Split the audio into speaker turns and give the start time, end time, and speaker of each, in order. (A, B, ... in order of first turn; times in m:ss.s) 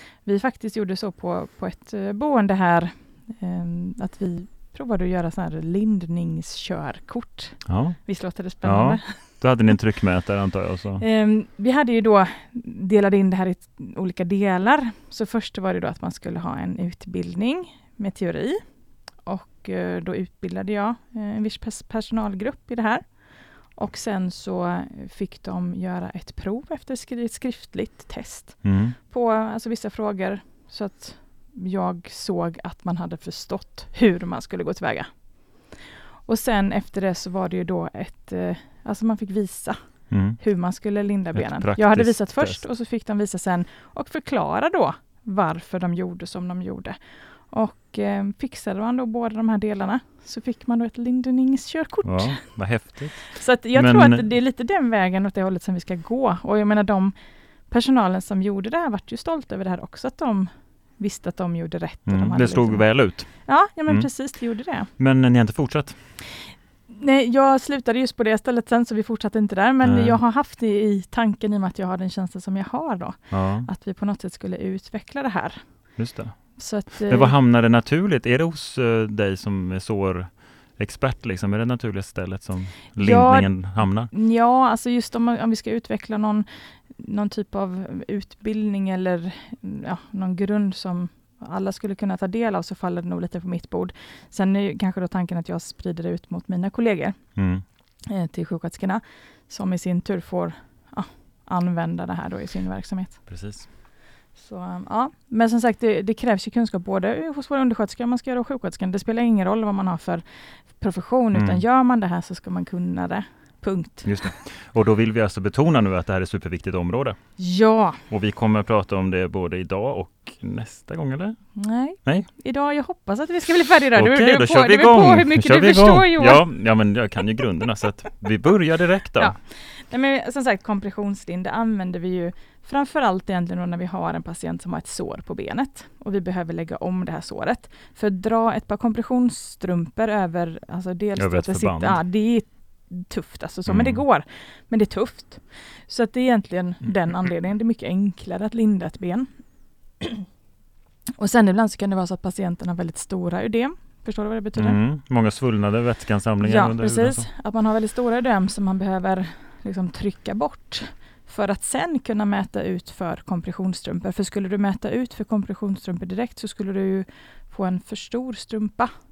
0:00.2-0:09.2 A
0:07.6-0:08.0 B
0:08.6-0:11.0 B
0:11.0-0:18.6 A
0:19.2-0:23.1 A
0:23.7-0:35.1 A
0:28.6-0:29.0 B
0:36.2-0:39.8 A
0:40.1-0:40.4 B
0:40.4-0:47.0 A
0:41.3-0:42.6 B
0:47.5-0:52.4 A
0:52.0-0:54.3 B
0:53.3-0:57.1 A
0:57.7-1:04.9 A
1:02.0-1:03.3 B
1:05.0-1:06.0 B
1:06.3-1:15.6 A
1:09.8-1:10.2 B
1:13.3-1:13.7 B
1:16.0-1:16.4 B
1:16.6-1:17.3 A
1:16.9-1:24.1 B
1:23.0-1:37.2 A
1:37.4-1:37.6 B
1:38.0-1:43.2 A
1:43.3-1:43.7 B
1:44.4-1:50.2 A
1:50.8-1:54.1 A
1:51.3-1:51.6 B
1:54.0-1:57.2 B
1:57.4-1:58.0 A
1:58.1-2:01.4 B
2:01.5-2:06.4 A
2:03.9-2:09.3 B
2:09.2-2:29.3 A
2:21.2-2:22.0 B
2:23.7-2:24.0 B
2:30.0-2:30.2 A
2:31.2-2:34.8 A
2:34.6-2:37.3 B
2:36.4-2:48.9 A